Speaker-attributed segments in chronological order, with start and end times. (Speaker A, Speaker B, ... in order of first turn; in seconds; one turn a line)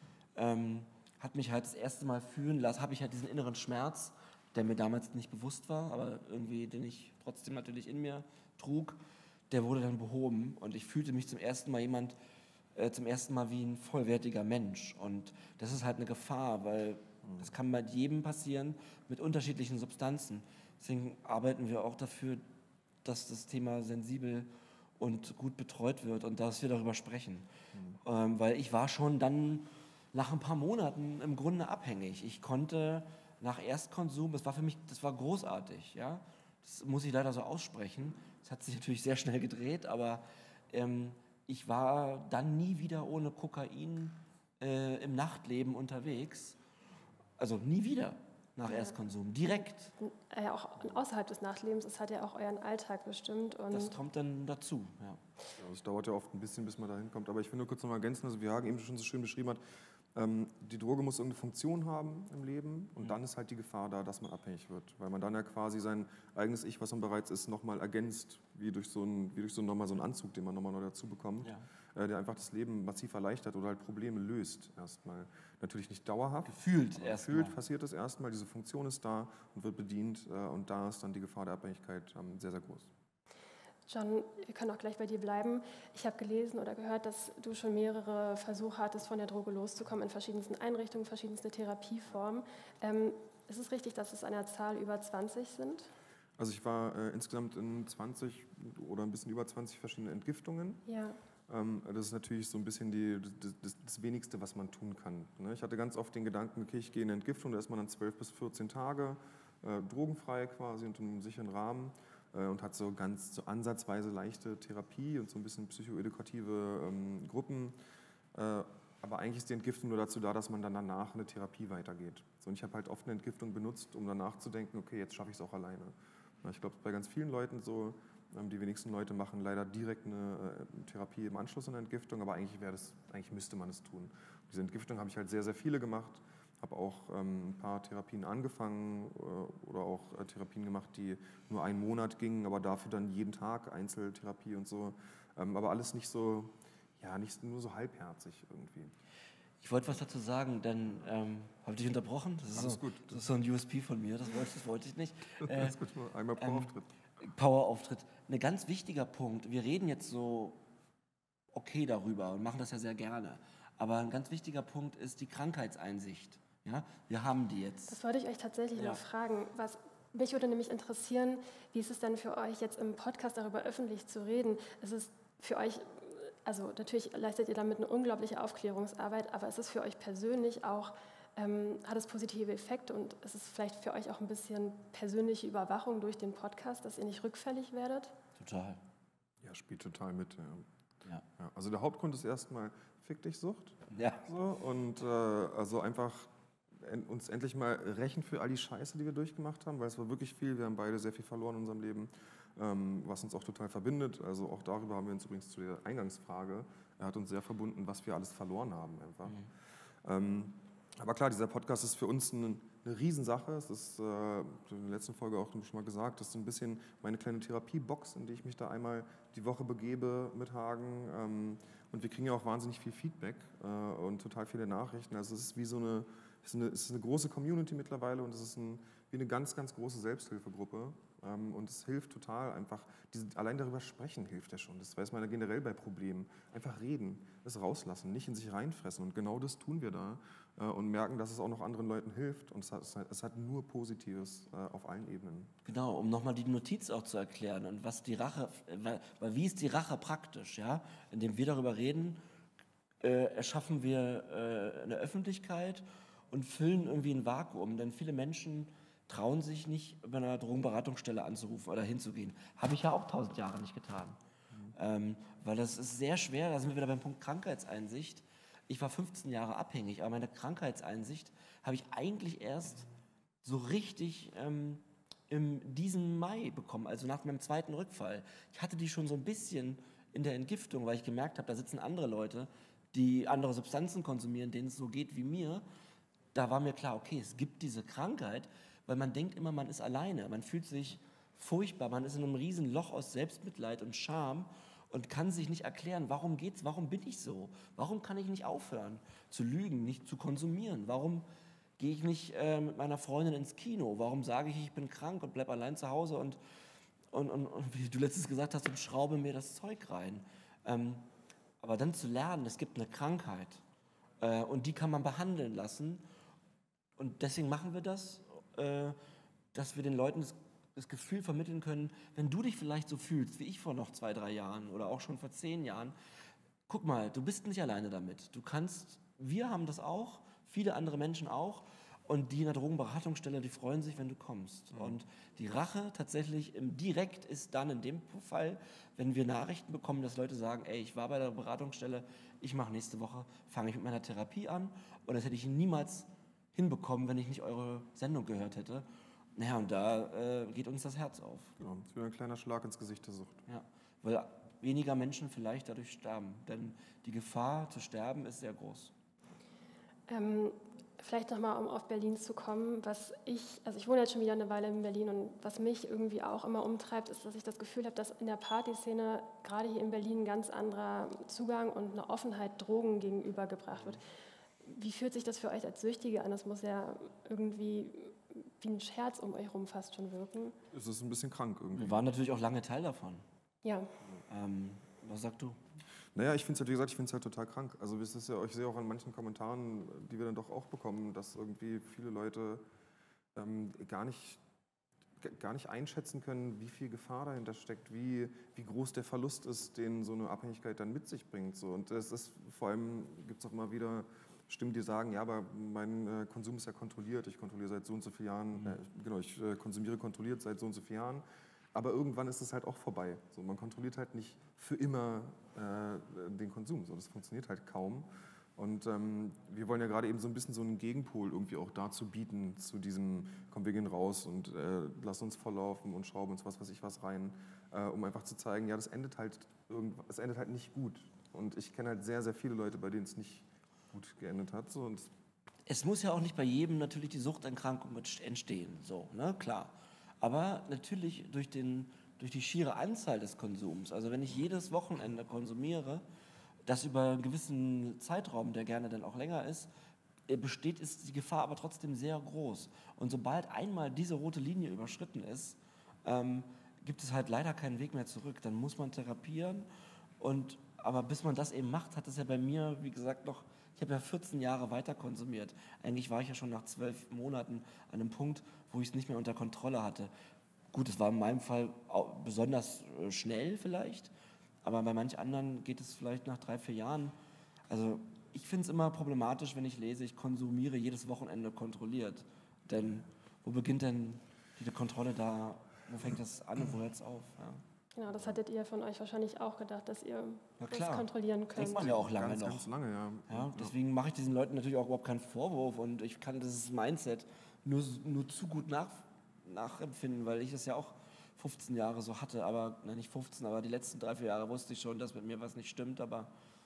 Speaker A: 0.4-9.0
Speaker A: 9.5-12.2
Speaker A: 12.8-22.4
Speaker A: 23.1-27.5
Speaker B: 27.7-28.0
Speaker A: 28.0-46.6
Speaker A: 47.4-49.9
Speaker C: 48.7-49.0
Speaker C: 50.0-54.0
Speaker A: 53.7-55.2
Speaker B: 55.6-59.6
Speaker B: 60.1-82.9
Speaker A: 76.5-77.5
Speaker C: 83.9-95.9
Speaker B: 96.4-100.8
Speaker C: 100.9-101.2
Speaker B: 101.5-117.8
Speaker B: 118.3-148.9
Speaker A: 149.6-155.8
Speaker B: 152.5-153.3
Speaker B: 155.4-156.9
Speaker A: 156.4-160.6
Speaker A: 161.5-167.9
Speaker C: 167.9-188.2
Speaker A: 188.4-188.8
Speaker B: 189.4-190.7
Speaker B: 191.4-209.4
Speaker A: 193.9-194.2
Speaker B: 210.0-245.5
Speaker A: 245.7-252.2
Speaker A: 253.0-264.2
Speaker A: 264.7-272.9
Speaker A: 273.4-285.6
Speaker A: 286.3-301.2
Speaker A: 301.8-306.4
Speaker A: 307.1-311.1
Speaker A: 311.6-313.6
Speaker A: 314.2-316.0
Speaker A: 317.0-319.0
Speaker A: 319.5-325.9
Speaker A: 326.7-351.5
Speaker B: 334.7-335.0
Speaker B: 351.6-353.4
Speaker A: 353.5-358.9
Speaker C: 360.1-374.0
Speaker C: 374.6-380.6
Speaker B: 380.7-382.0
Speaker A: 381.8-383.2
Speaker C: 383.6-383.9
Speaker A: 384.3-385.6
Speaker B: 386.1-392.6
Speaker B: 393.4-394.4
Speaker B: 395.2-411.2
Speaker B: 411.7-435.1
Speaker A: 435.7-446.1
Speaker A: 446.6-449.7
Speaker A: 450.3-459.7
Speaker A: 460.2-470.1
Speaker A: 470.7-474.1
Speaker A: 474.6-477.1
Speaker A: 477.7-487.6
Speaker C: 487.9-491.9
Speaker A: 490.6-492.7
Speaker B: 491.6-493.8
Speaker A: 493.3-506.3